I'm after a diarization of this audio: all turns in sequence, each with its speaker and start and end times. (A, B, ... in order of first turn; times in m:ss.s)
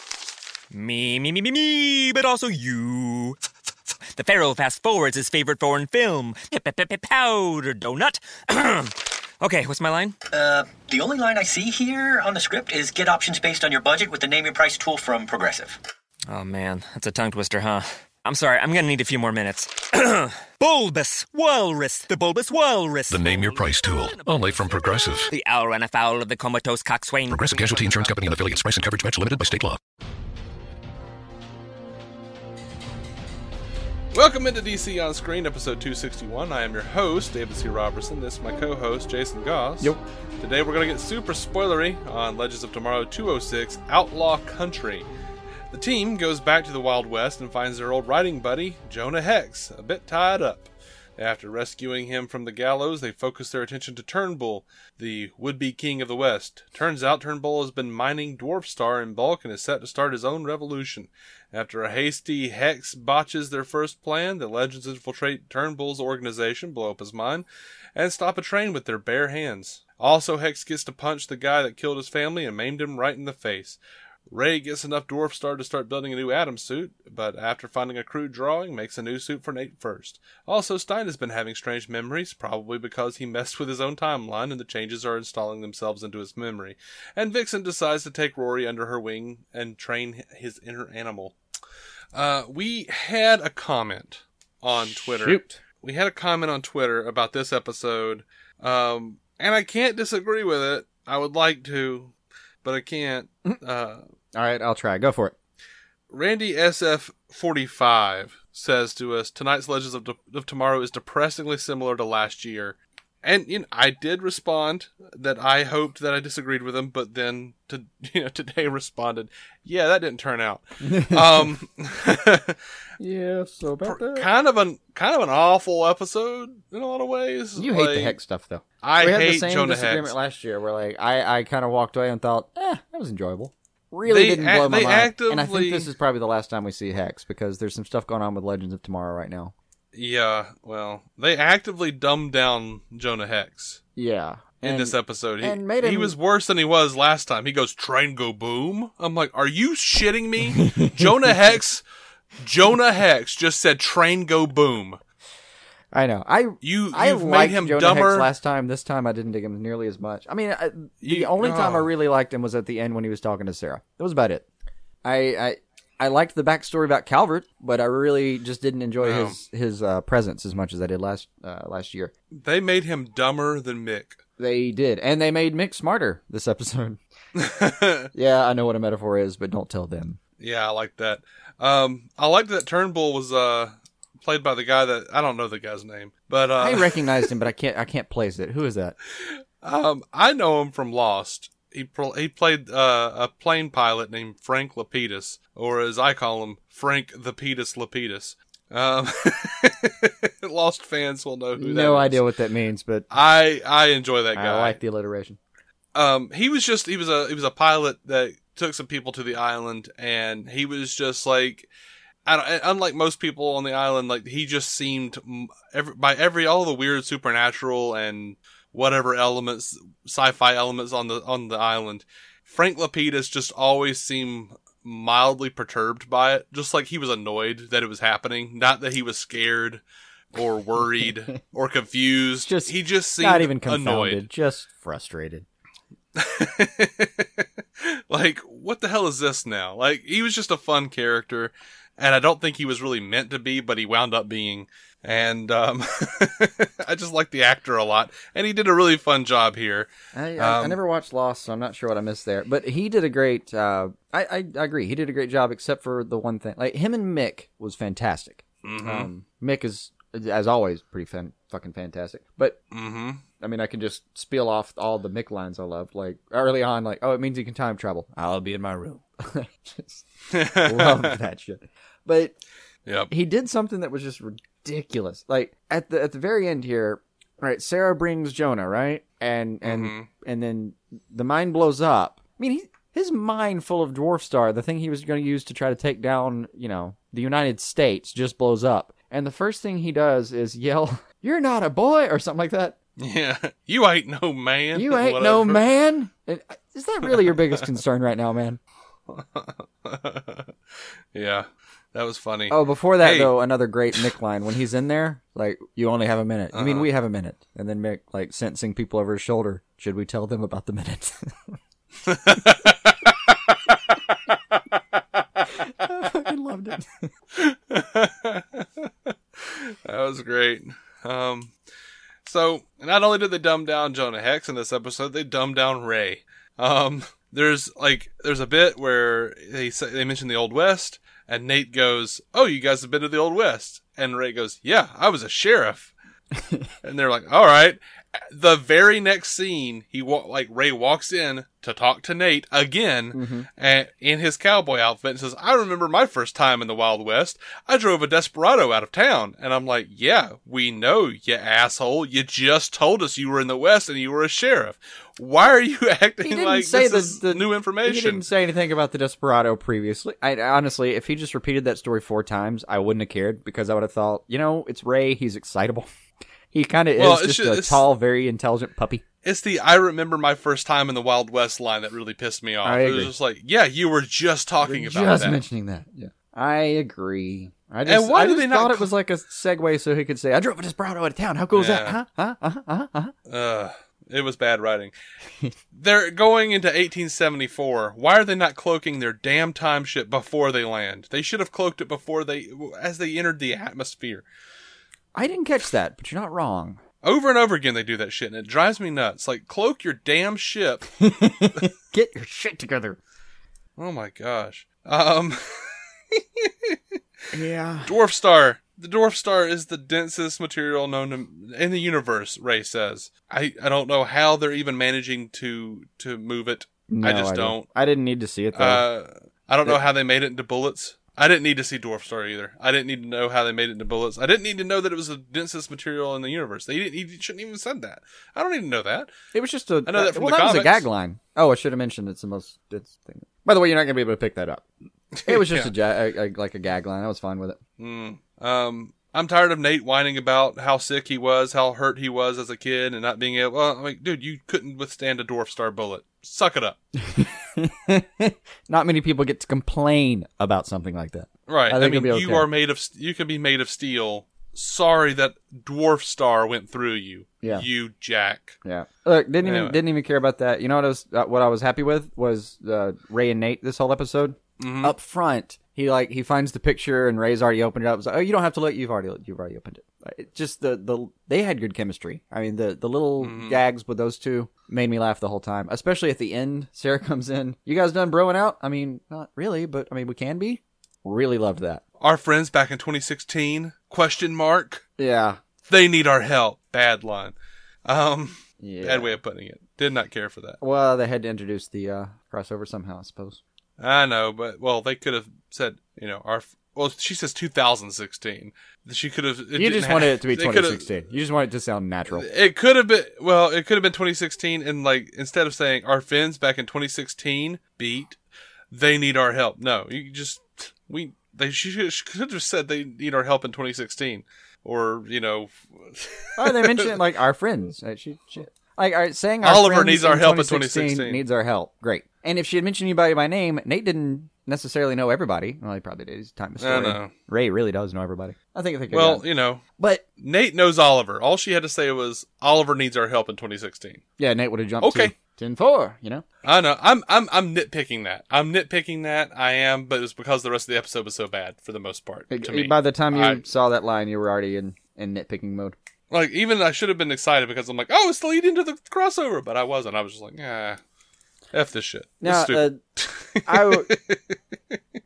0:00.7-0:03.4 A
0:04.1-0:10.1 A
0:10.3-0:15.8 B
0:16.3-0:28.1 A
0:23.1-0:25.3 C
0:27.3-0:29.8 C
0:34.1-0:45.1 D
0:45.7-1:07.4 D
1:08.0-1:31.3 D
1:32.1-1:44.0 D
1:35.0-1:35.6 E
1:44.3-1:45.4 E
1:46.1-2:02.6 D
2:00.8-2:01.5 E
2:03.0-2:04.3 E
2:03.8-2:08.2 D
2:07.6-2:19.5 E
2:08.8-2:10.2 D
2:14.1-2:15.9 D
2:19.9-2:23.8 D
2:24.0-2:26.2 E
2:24.6-2:31.8 D
2:30.5-2:31.1 E
2:32.4-2:35.0 D
2:35.9-2:44.4 E
2:36.6-2:38.3 D
2:41.0-2:41.9 D
2:45.0-2:52.1 E
2:49.0-2:49.4 D
2:52.3-2:54.2 D
2:54.4-2:57.0 E
2:57.5-2:58.0 D
2:58.1-3:00.2 E
3:00.4-3:07.3 D
3:06.6-3:09.0 E
3:09.6-3:22.2 D
3:21.6-3:23.1 E
3:23.1-3:24.8 D
3:24.3-3:25.4 E
3:25.9-3:31.7 D
3:32.2-3:49.8 D
3:50.3-3:54.2 D
3:52.4-3:55.4 E
3:56.2-3:57.4 D
3:58.1-4:10.8 D
4:10.1-4:22.6 E
4:18.6-4:19.1 D
4:22.7-4:23.2 D
4:23.4-4:32.4 E
4:30.3-4:31.1 D
4:32.9-4:33.1 D
4:33.1-4:52.8 E
4:39.6-4:40.1 D
4:53.0-4:55.6 D
4:54.7-4:58.6 E
4:57.0-4:57.6 D
4:59.1-5:00.5 D
5:01.1-5:03.3 D
5:02.5-5:11.6 E
5:06.5-5:06.9 D
5:12.1-5:13.6 D
5:15.7-5:17.1 E
5:17.4-5:19.1 D
5:19.7-5:21.5 D
5:22.2-5:35.9 D
5:36.4-5:36.7 E
5:36.8-5:58.3 D
5:43.1-5:43.5 E
5:56.2-6:05.9 E
6:06.5-6:09.0 E
6:07.0-6:07.9 D
6:09.2-6:15.4 D
6:12.6-6:13.1 E
6:14.6-6:23.1 E
6:17.9-6:18.9 D
6:21.5-6:22.0 D
6:23.2-6:24.9 D
6:25.7-6:34.2 D
6:35.1-6:36.8 E
6:37.0-6:41.0 D
6:41.0-6:43.0 E
6:43.8-6:47.0 D
6:47.3-6:48.0 E
6:47.8-6:57.7 D
6:56.9-6:58.9 E
6:58.5-7:09.1 D
7:09.3-7:14.6 E
7:09.8-7:10.9 D
7:15.2-7:15.7 D
7:15.2-7:17.6 E
7:17.8-7:26.8 D
7:27.0-7:32.5 E
7:31.5-7:38.6 D
7:37.4-7:37.7 E
7:38.6-8:01.8 E
7:39.4-7:39.8 D
7:44.6-7:44.9 D
7:53.2-7:53.6 D
8:02.0-8:04.8 D
8:05.0-8:05.4 E
8:05.7-8:07.3 D
8:07.9-8:10.6 D
8:08.6-8:09.2 E
8:10.6-8:13.4 E
8:13.8-8:20.9 D
8:19.6-8:22.3 E
8:22.1-8:28.2 D
8:28.7-8:37.0 D
8:36.4-8:49.3 E
8:39.4-8:41.2 D
8:46.6-8:47.1 D
8:48.9-8:49.6 D
8:49.8-8:50.0 E
8:50.2-8:54.0 D
8:54.2-8:56.2 E
8:54.8-8:55.1 D
8:56.4-9:03.4 D
9:02.3-9:05.8 E
9:06.1-9:10.8 D
9:11.5-9:14.4 D
9:12.2-9:12.8 E
9:13.5-9:14.0 E